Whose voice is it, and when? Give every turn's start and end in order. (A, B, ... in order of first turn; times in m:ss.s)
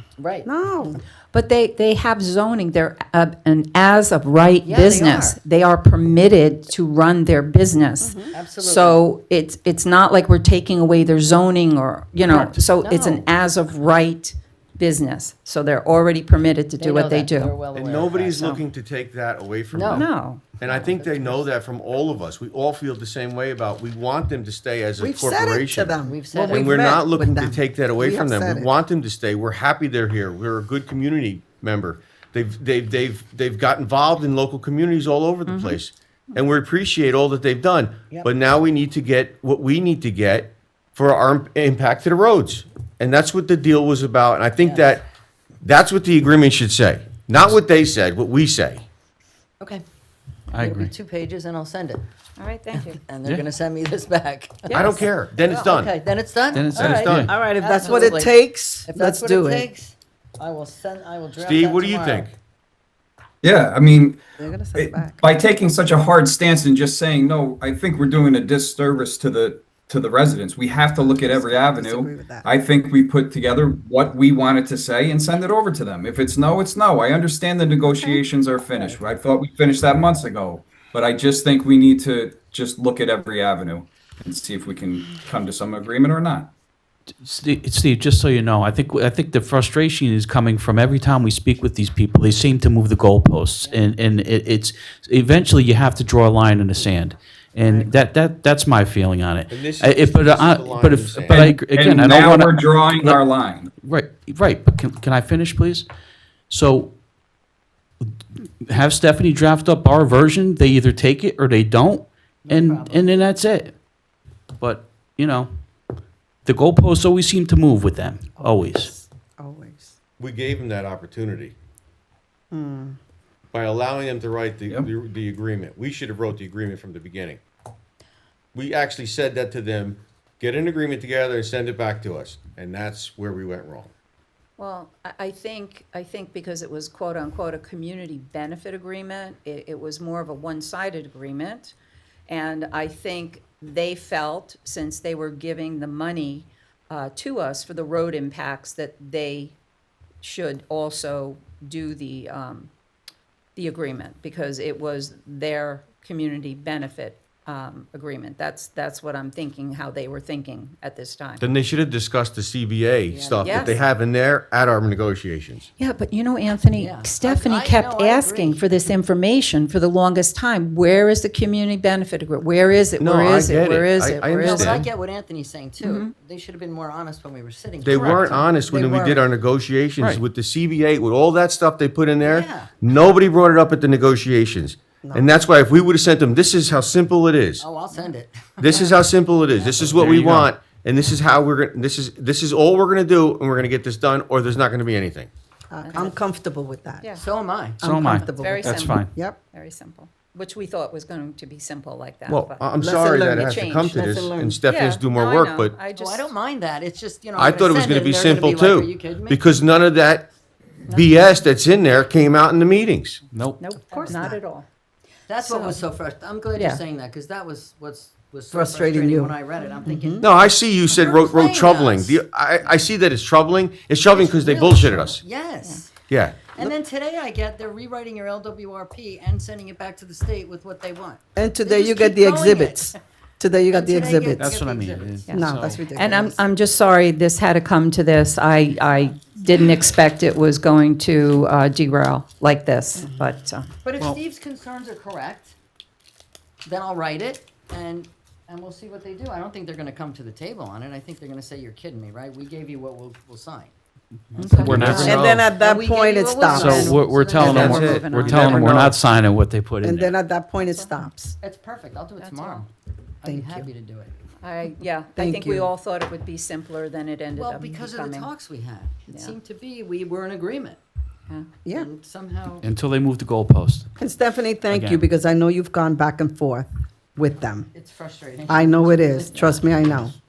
0:00.2-0:00.5 A
0:00.4-0:01.0 B
0:01.3-0:17.5 C
0:04.6-0:05.4 A
0:08.0-0:08.3 B
0:08.3-0:09.0 A
0:12.8-0:13.3 A
0:16.8-0:18.5 A
0:17.7-0:45.0 D
0:19.7-0:20.1 A
0:19.9-0:20.4 C
0:20.6-0:21.4 A
0:25.0-0:28.7 B
0:26.0-0:27.0 A
0:35.4-0:35.8 C
0:45.6-0:48.8 D
0:50.5-0:50.9 E
0:50.5-0:52.0 A
0:52.4-0:53.0 C
0:52.7-1:02.3 A
0:54.7-0:55.7 C
0:54.7-0:55.9 D
0:56.5-0:57.3 E
0:56.7-0:57.3 D
0:57.3-0:59.7 B
1:01.4-1:02.3 D
1:03.4-1:04.2 F
1:04.4-1:05.3 B
1:04.7-1:26.5 F
1:11.0-1:12.5 B
1:17.9-1:18.2 C
1:27.2-1:43.2 E
1:33.6-1:33.8 A
1:39.5-1:41.4 D
1:41.3-1:43.7 F
1:43.8-1:45.9 E
1:46.5-1:46.9 E
1:48.0-1:53.7 E
1:52.4-1:53.2 A
1:54.6-1:55.5 E
1:56.4-1:58.9 E
1:58.4-1:59.9 B
2:00.2-2:01.5 D
2:02.5-2:03.0 B
2:03.5-2:07.4 D
2:08.5-2:13.9 D
2:14.6-2:21.7 C
2:22.3-2:29.5 C
2:30.2-2:32.7 C
2:33.5-2:41.4 C
2:41.4-2:45.7 D
2:43.1-2:43.8 A
2:43.4-2:43.7 C
2:45.8-2:54.7 C
2:46.7-2:48.6 A
2:53.0-2:54.9 D
2:54.2-2:58.4 A
2:55.8-2:56.1 C
2:57.8-3:07.6 D
2:58.6-2:59.2 B
3:02.2-3:02.7 A
3:07.6-3:09.0 A
3:08.6-3:15.3 D
3:09.6-3:10.1 A
3:09.9-3:10.5 E
3:15.7-3:17.1 B
3:15.8-3:16.1 C
3:17.2-3:18.2 A
3:17.8-3:19.4 B
3:17.8-3:19.1 E
3:18.4-3:22.6 C
3:22.3-3:25.8 D
3:22.8-3:24.6 B
3:23.4-3:24.0 C
3:24.7-3:26.3 C
3:26.0-3:29.4 A
3:27.4-3:30.3 D
3:30.9-3:33.2 D
3:33.3-3:33.6 E
3:33.6-3:34.7 C
3:33.8-3:34.4 B
3:35.3-3:42.2 A
3:35.4-3:35.8 C
3:36.5-3:36.8 C
3:38.5-3:40.2 B
3:40.2-3:45.2 D
3:44.1-3:45.9 A
3:46.1-3:46.7 D
3:46.5-3:53.0 A
3:51.4-3:54.5 B
3:53.7-3:55.7 A
3:54.4-3:55.9 E
3:55.3-3:56.4 B
3:55.3-4:03.7 C
4:03.8-4:05.5 A
4:06.6-4:13.7 A
4:14.3-4:15.2 E
4:14.4-4:17.0 C
4:14.4-4:15.2 A
4:14.6-4:15.5 D
4:14.8-4:17.9 B
4:16.2-4:18.0 A
4:16.6-4:20.1 E
4:17.4-4:18.9 D
4:17.5-4:18.6 C
4:19.8-4:21.4 B
4:20.6-4:21.0 C
4:21.4-4:22.7 A
4:22.2-4:22.7 C
4:23.2-4:24.2 A
4:23.2-4:23.7 B
4:24.4-4:28.3 C
4:25.2-4:25.7 B
4:27.3-4:30.8 A
4:29.1-4:29.4 C
4:31.7-4:32.7 A
4:32.6-4:33.9 E
4:34.0-4:37.7 B
4:34.7-4:35.0 E
4:37.7-4:40.1 A
4:38.5-4:40.2 B